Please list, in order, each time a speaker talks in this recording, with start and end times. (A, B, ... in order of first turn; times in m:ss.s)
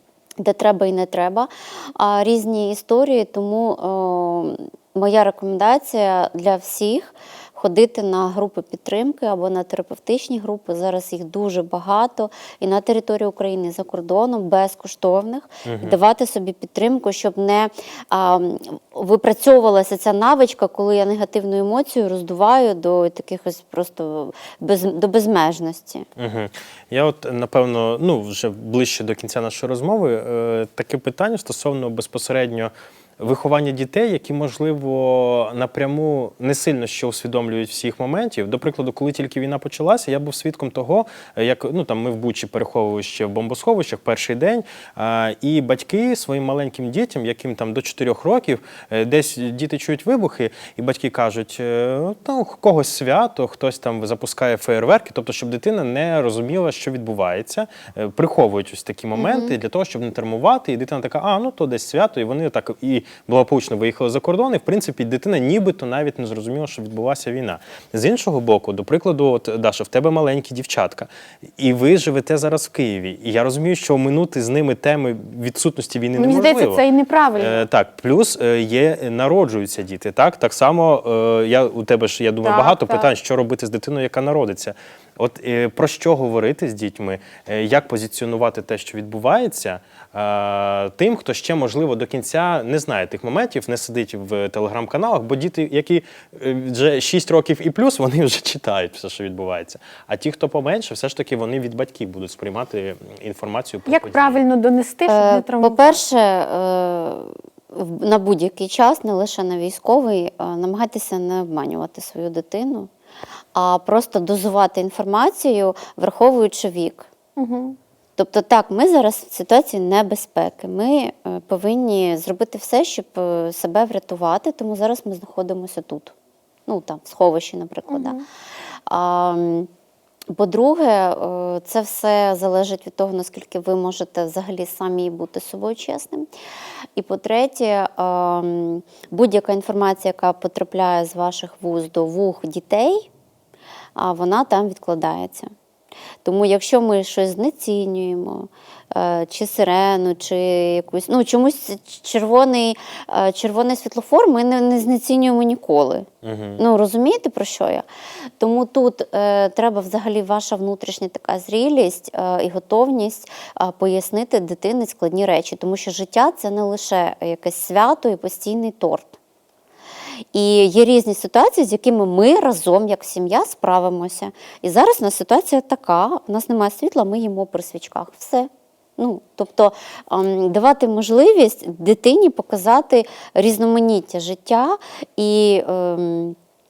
0:00.4-0:26.1 A
0:15.6-0:16.0 B
0:26.2-1:16.8 B
0:59.2-0:59.5 A
1:16.2-1:17.6 C
1:17.4-1:44.4 B
1:22.4-1:23.1 C
1:43.9-1:46.0 C
1:45.1-1:52.9 A
1:53.5-1:57.1 A
1:57.4-1:57.8 C
1:58.2-2:06.1 A
2:06.7-2:08.2 A
2:07.9-2:08.2 C
2:08.9-2:09.7 A
2:10.3-2:16.3 A
2:17.0-2:23.1 A
2:24.0-2:25.5 A
2:26.2-2:36.1 A
2:36.2-2:36.6 B
2:36.6-2:37.8 A
2:38.4-2:49.2 A
2:50.3-3:06.4 A